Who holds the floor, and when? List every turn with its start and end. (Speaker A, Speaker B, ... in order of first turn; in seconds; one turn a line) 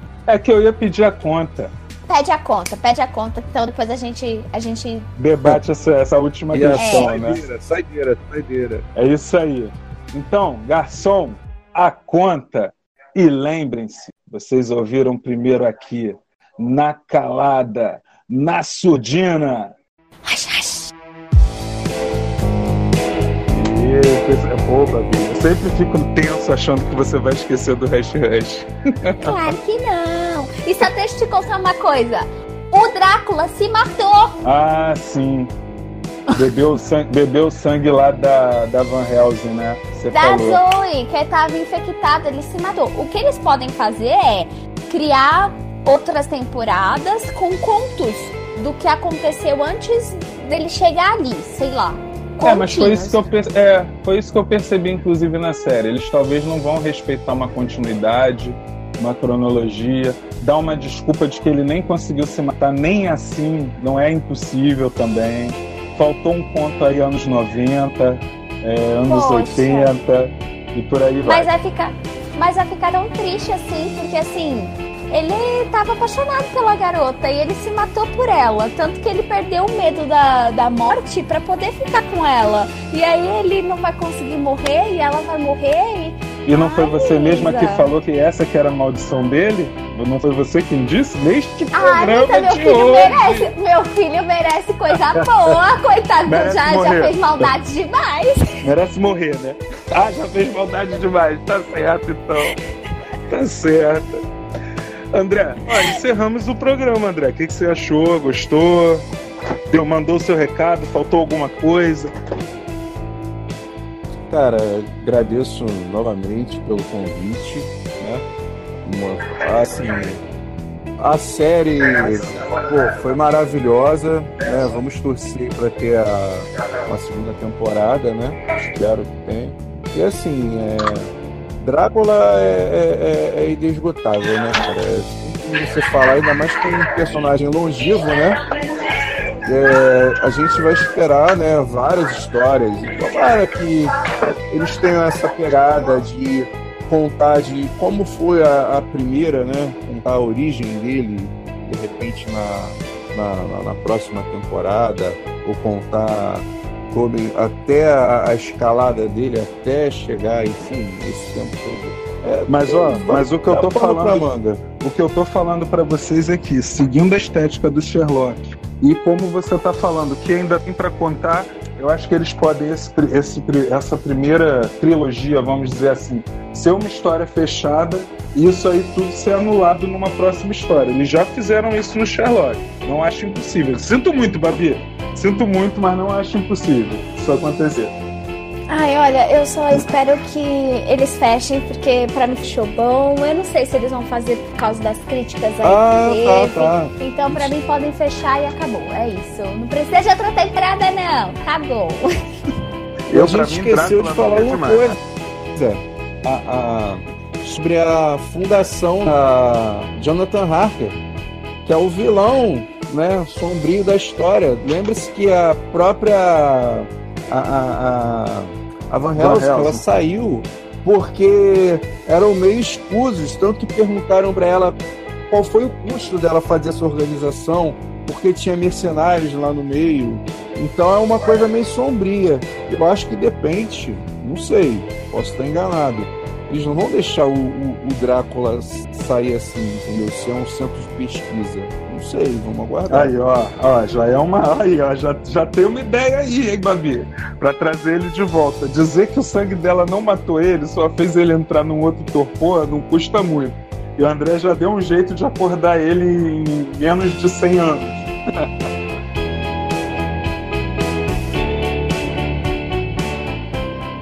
Speaker A: 0.3-1.7
Speaker B: 2.1-5.1
Speaker A: 5.2-7.4
Speaker C: 6.5-8.8
Speaker B: 6.8-7.1
Speaker A: 9.0-19.7
Speaker B: 20.3-20.9
Speaker A: 23.5-29.4
Speaker B: 29.2-34.4
Speaker A: 34.4-35.5
Speaker A: 36.3-40.6
Speaker B: 40.1-53.3
Speaker A: 52.4-71.5
Speaker B: 69.1-69.9
Speaker B: 71.2-87.9
Speaker A: 86.5-93.5
Speaker B: 91.7-98.6
Speaker A: 96.3-97.5
Speaker A: 98.6-102.6
Speaker A: 103.3-104.2
Speaker A: 105.1-109.0
Speaker A: 109.7-112.1
Speaker C: 114.3-118.2
Speaker C: 118.8-120.2
Speaker C: 121.0-138.4
Speaker C: 139.4-143.9
Speaker C: 144.5-164.5
Speaker A: 162.5-187.9
Speaker B: 188.7-202.1
Speaker C: 195.6-197.5
Speaker A: 203.1-205.0
Speaker C: 203.1-205.0
Speaker C: 205.5-211.0
Speaker C: 211.7-243.2
Speaker A: 219.2-219.8
Speaker A: 242.9-258.5